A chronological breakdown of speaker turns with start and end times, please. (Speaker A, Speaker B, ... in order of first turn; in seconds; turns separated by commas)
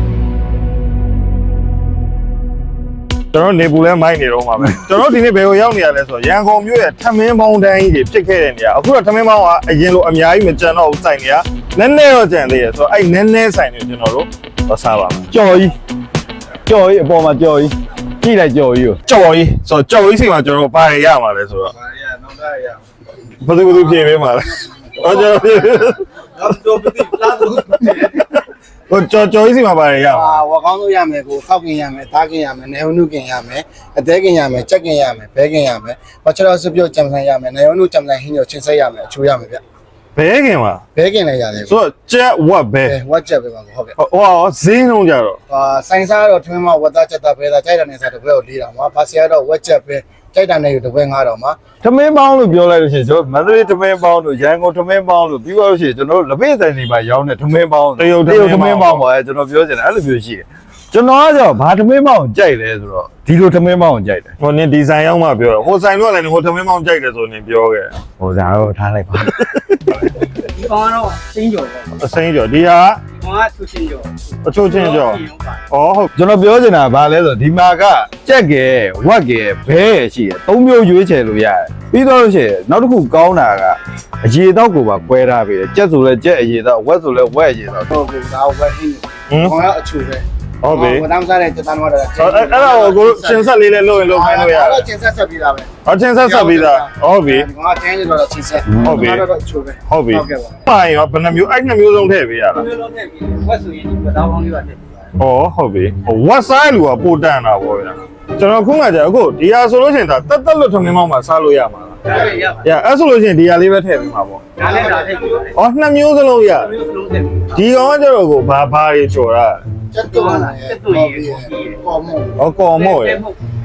Speaker A: 3.3-15.3, Speaker B: 15.3-15.8, Speaker B: 16.7-19.0, Speaker A: 19.1-21.8, Speaker B: 21.8-22.8, Speaker A: 23.4-26.0, Speaker B: 26.4-28.0, Speaker C: 27.0-27.4, Speaker A: 28.9-30.4, Speaker D: 30.1-39.6, Speaker A: 40.2-40.8, Speaker D: 41.0-41.8, Speaker A: 41.7-43.0, Speaker D: 42.9-43.9, Speaker A: 44.0-45.4, Speaker D: 45.5-51.6, Speaker B: 51.8-64.3, Speaker A: 58.0-59.0, Speaker A: 64.4-67.9, Speaker B: 68.2-70.0, Speaker C: 70.3-72.0, Speaker A: 72.0-73.0, Speaker C: 73.1-75.6, Speaker A: 74.4-76.1, Speaker B: 76.2-87.9, Speaker D: 87.9-95.7, Speaker A: 89.3-89.5, Speaker A: 90.6-91.1, Speaker A: 92.2-94.9, Speaker A: 95.8-97.5, Speaker D: 96.2-100.6, Speaker B: 98.7-99.1, Speaker A: 98.8-99.3, Speaker A: 99.9-102.7, Speaker C: 102.6-104.8, Speaker A: 105.2-114.6, Speaker C: 112.0-112.7, Speaker C: 114.6-115.5, Speaker D: 114.6-115.3, Speaker A: 115.5-116.7, Speaker C: 116.6-117.5, Speaker A: 117.5-119.6, Speaker D: 119.9-122.4, Speaker C: 120.1-121.8, Speaker A: 122.4-123.3, Speaker C: 122.8-123.4